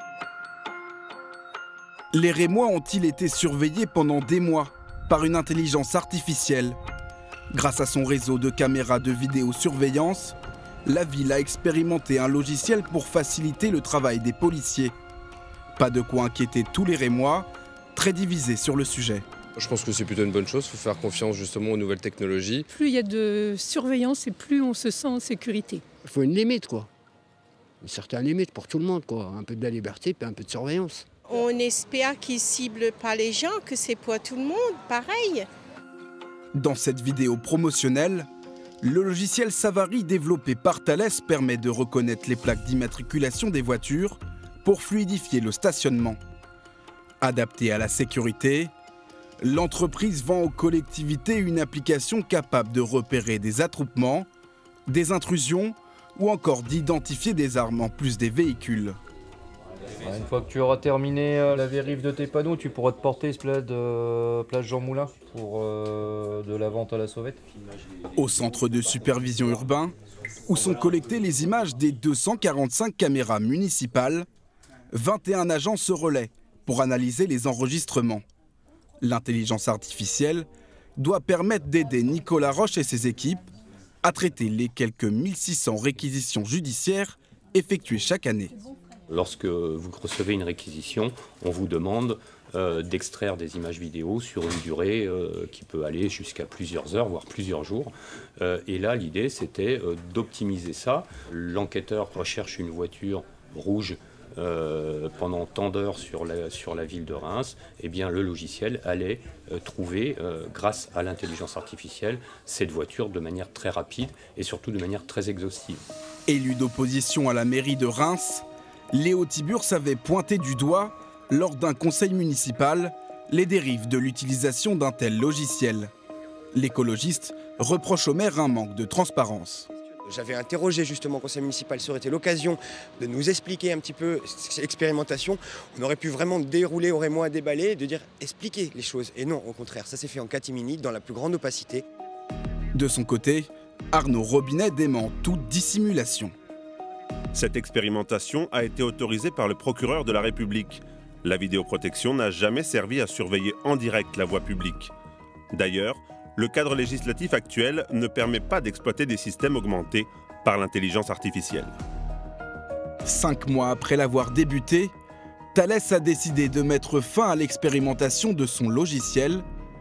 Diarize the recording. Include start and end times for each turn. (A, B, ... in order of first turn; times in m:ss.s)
0:02.1-0:06.8 A
0:07.5-0:15.0 A
0:15.8-0:19.2 A
0:19.6-0:22.7 B
0:22.7-0:25.8 C
0:26.0-0:26.9 D
0:27.8-0:31.1 D
0:31.3-0:35.5 E
0:36.6-0:38.3 A
0:38.8-0:46.2 A
0:47.2-0:48.7 A
0:49.4-0:54.3 A
0:54.9-0:59.0 A
1:00.0-1:07.4 F
1:08.2-1:09.9 A
1:10.5-1:14.3 A
1:14.9-1:18.2 A
1:19.0-1:23.5 A
1:24.0-1:28.6 A
1:29.1-1:55.8 G
1:56.3-2:05.9 A
2:06.5-2:09.7 A
2:10.1-2:21.8 H
2:22.7-2:26.3 A
2:27.3-2:34.9 I
2:35.5-2:41.7 I
2:43.0-2:44.9 A
2:45.5-2:49.4 A